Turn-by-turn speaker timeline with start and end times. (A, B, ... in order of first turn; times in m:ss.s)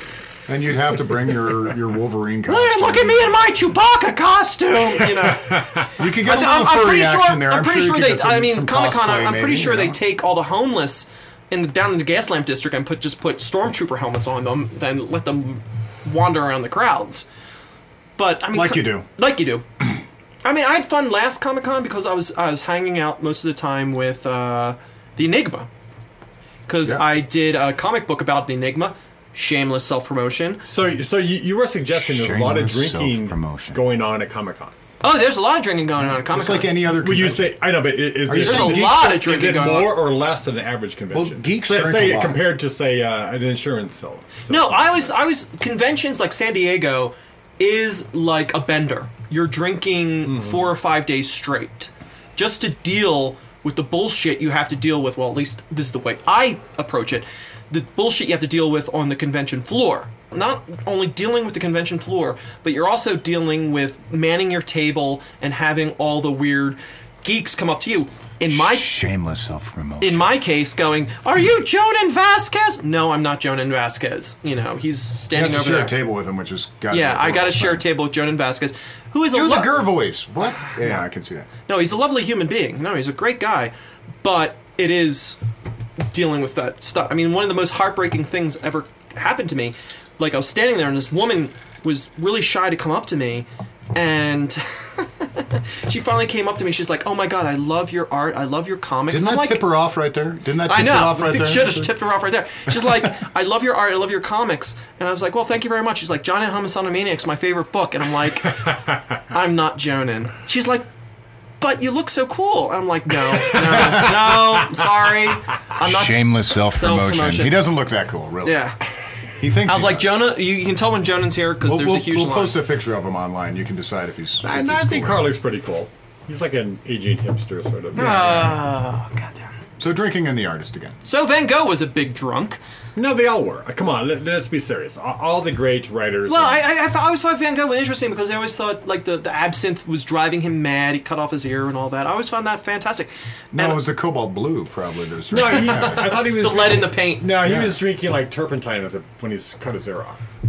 0:00.5-0:03.4 A
0:02.4-0:17.2 B
0:06.0-0:10.0 A
0:18.2-0:19.6 B
0:18.5-0:19.1 A
0:20.4-0:25.7 B
0:26.7-0:30.6 B
0:30.6-0:34.7 C
0:32.0-0:33.8 A
0:35.0-0:36.7 B
0:36.0-0:37.6 A
0:36.9-0:45.1 C
0:38.2-0:39.2 A
0:38.4-0:40.0 B
0:41.1-0:42.5 A
0:44.5-1:08.9 B
0:50.2-0:50.7 C
1:08.5-1:10.3 A
1:10.0-1:15.9 B
1:15.3-1:17.8 A
1:16.9-1:19.8 B
1:19.3-1:21.5 A
1:21.7-1:25.4 B
1:26.1-1:39.6 B
1:39.1-1:42.0 A
1:40.6-1:48.7 B
1:42.7-1:43.1 A
1:49.3-1:50.9 B
1:51.6-1:57.6 B
1:53.4-1:54.8 C
1:55.8-1:58.7 A
1:58.4-1:58.8 B
1:59.4-2:00.3 A
1:59.6-2:02.6 B
2:01.6-2:05.3 A
2:04.4-2:08.5 C
2:07.9-2:09.5 B
2:08.0-2:08.6 A
2:09.8-2:11.0 A
2:11.0-2:12.6 B
2:12.9-2:16.6 C
2:16.3-2:23.8 B
2:23.5-2:26.2 A
2:25.3-2:30.2 C
2:25.5-2:27.3 B
2:27.4-2:27.8 A